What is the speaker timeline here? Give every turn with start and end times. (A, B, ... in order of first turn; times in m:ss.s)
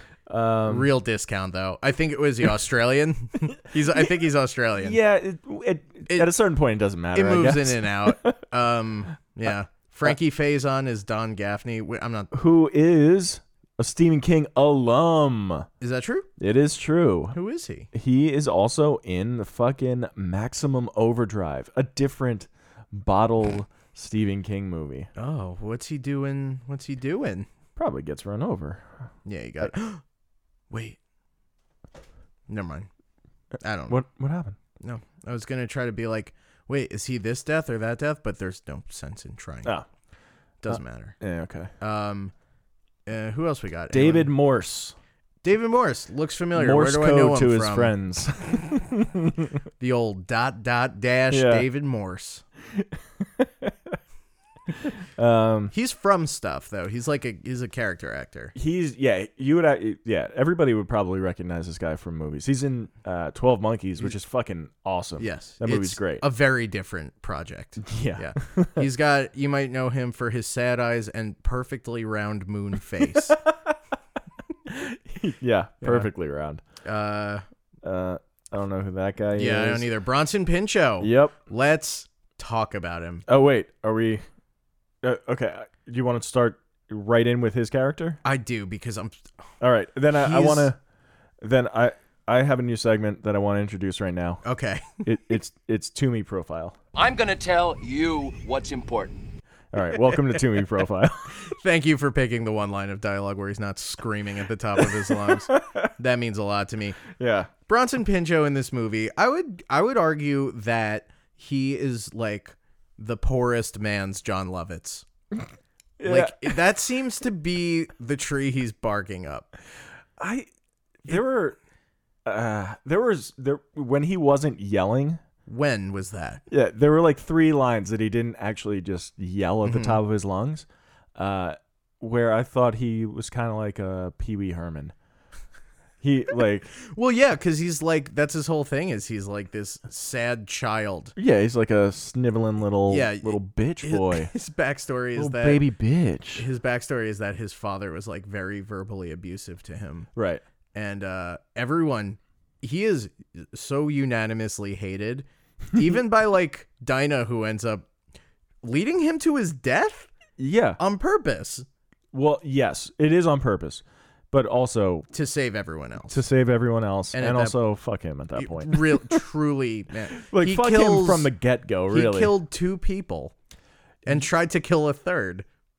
0:00.3-0:00.9 A
0:00.7-0:05.0 B
0:04.8-0:08.4 A
0:06.1-0:06.3 B
0:07.1-0:12.3 B
0:12.3-0:15.7 A
0:15.8-0:16.3 B
0:16.4-0:17.4 A
0:17.3-0:17.9 B
0:17.9-0:25.1 A
0:25.2-0:27.5 B
0:27.8-0:29.1 A
0:29.2-0:30.0 B
0:30.7-0:31.0 B
0:32.5-0:32.9 B
0:33.6-0:34.0 B
0:33.9-0:34.6 A
0:34.8-0:39.7 B
0:40.6-0:41.2 B
0:40.7-0:41.7 A
0:41.8-0:42.3 B
0:43.1-0:44.3 B
0:43.9-0:45.0 A
0:45.4-0:47.9 B
0:46.5-0:49.6 A
0:49.8-0:52.4 B
0:51.3-0:51.7 A
0:52.7-0:54.0 A
0:54.7-0:55.7 A
0:55.7-0:58.5 B
0:58.5-1:06.2 A
1:05.2-1:13.4 B
1:07.8-1:08.9 A
1:13.3-1:13.7 A
1:14.6-1:16.6 A
1:15.8-1:16.1 B
1:16.8-1:17.4 B
1:17.8-1:19.9 A
1:19.3-1:23.2 B
1:21.0-1:21.4 A
1:23.3-1:24.2 A
1:25.0-1:28.2 A
1:28.2-1:29.2 B
1:29.6-1:30.8 A
1:30.1-1:30.7 B
1:31.4-1:34.4 A
1:34.4-1:35.0 B
1:35.0-1:36.8 A
1:36.9-1:39.2 C
1:39.7-1:41.3 A
1:41.4-1:47.0 B
1:44.8-1:45.9 A
1:47.1-1:47.5 A
1:47.7-1:55.0 B
1:56.0-1:56.6 A
1:56.0-1:59.5 B
2:00.2-2:00.5 A
2:01.0-2:01.6 A
2:02.2-2:05.2 A
2:05.5-2:06.4 B
2:06.5-2:14.9 A
2:09.6-2:10.0 B
2:16.0-2:16.7 A
2:16.8-2:21.1 B
2:21.2-2:24.3 A
2:22.9-2:25.6 B
2:25.2-2:26.4 A
2:26.3-2:30.1 B
2:30.1-2:30.4 A
2:30.7-2:37.8 B
2:38.6-2:40.1 B
2:40.4-2:40.8 A
2:40.8-2:41.6 B
2:42.1-2:45.1 A
2:45.1-2:46.2 B
2:46.1-2:49.2 A
2:47.1-2:47.6 B
2:48.4-2:51.3 B
2:50.2-2:52.3 A
2:51.9-2:53.3 B
2:54.0-2:55.4 B